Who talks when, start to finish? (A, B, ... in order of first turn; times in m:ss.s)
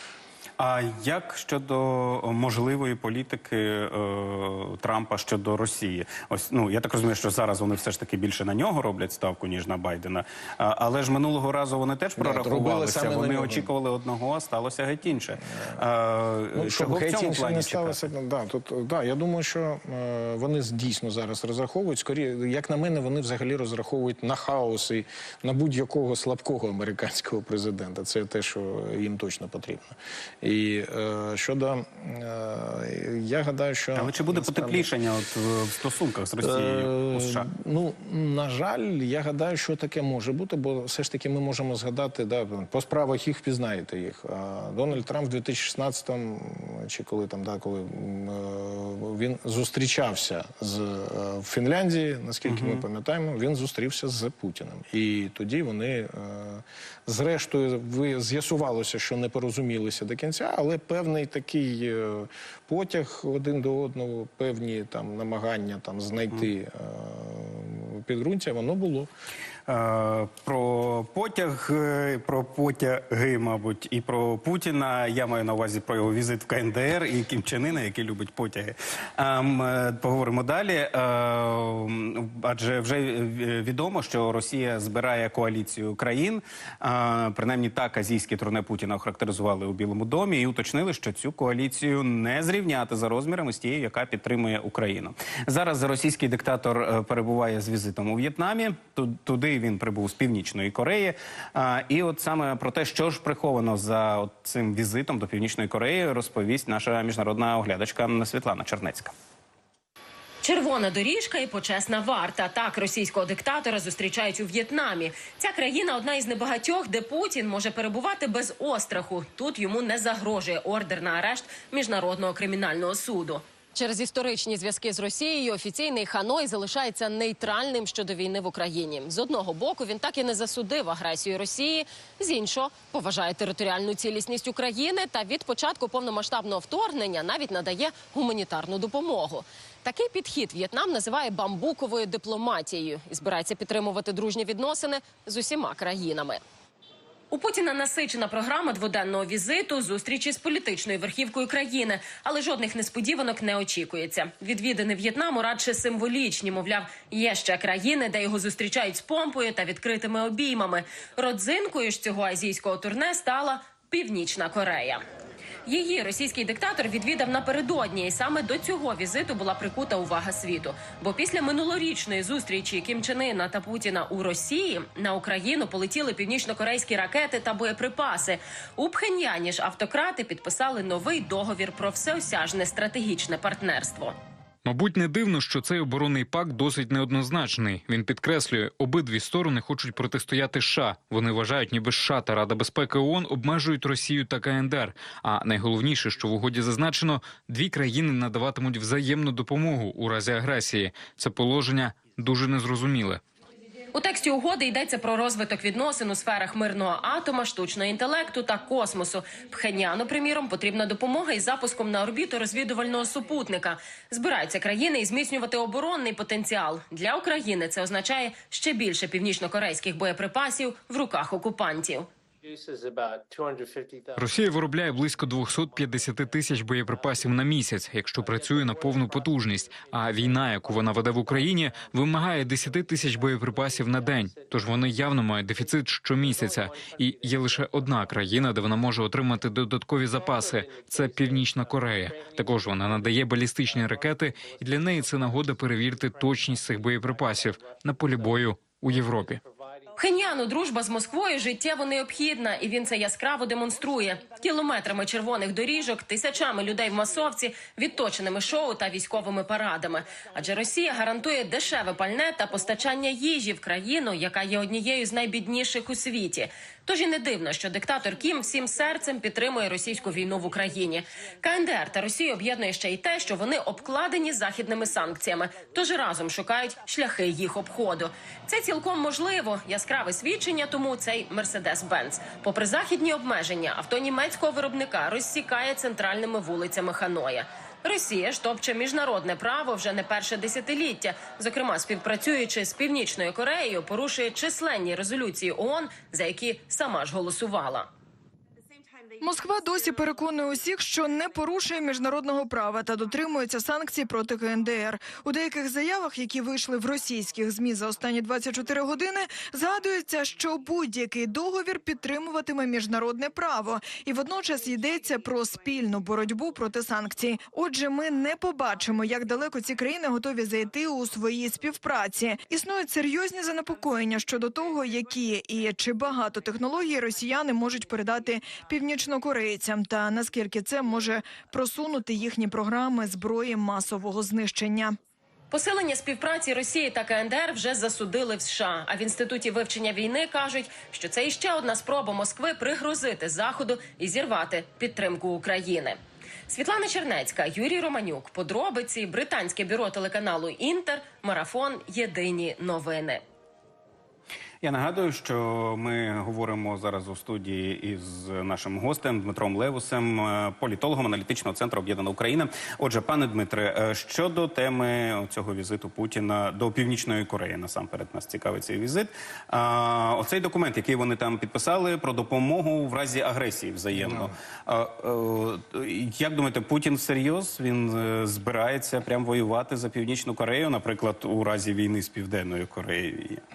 0:00.6-0:18.1 A
0:12.2-0:13.7 B
0:16.6-0:34.9 B
0:34.0-0:37.5 A
0:36.4-1:09.1 B
0:52.4-0:52.8 A
1:09.7-1:49.1 A
1:50.4-2:26.4 C
2:27.3-2:45.0 C
2:45.6-3:04.1 C
3:04.6-3:23.2 D
3:23.9-3:42.1 C
3:42.4-4:10.2 E
3:44.2-4:09.4 D
4:10.0-4:57.9 C
4:59.2-5:35.0 F
5:35.5-5:53.2 C
5:54.6-6:23.4 A
6:14.0-6:14.3 B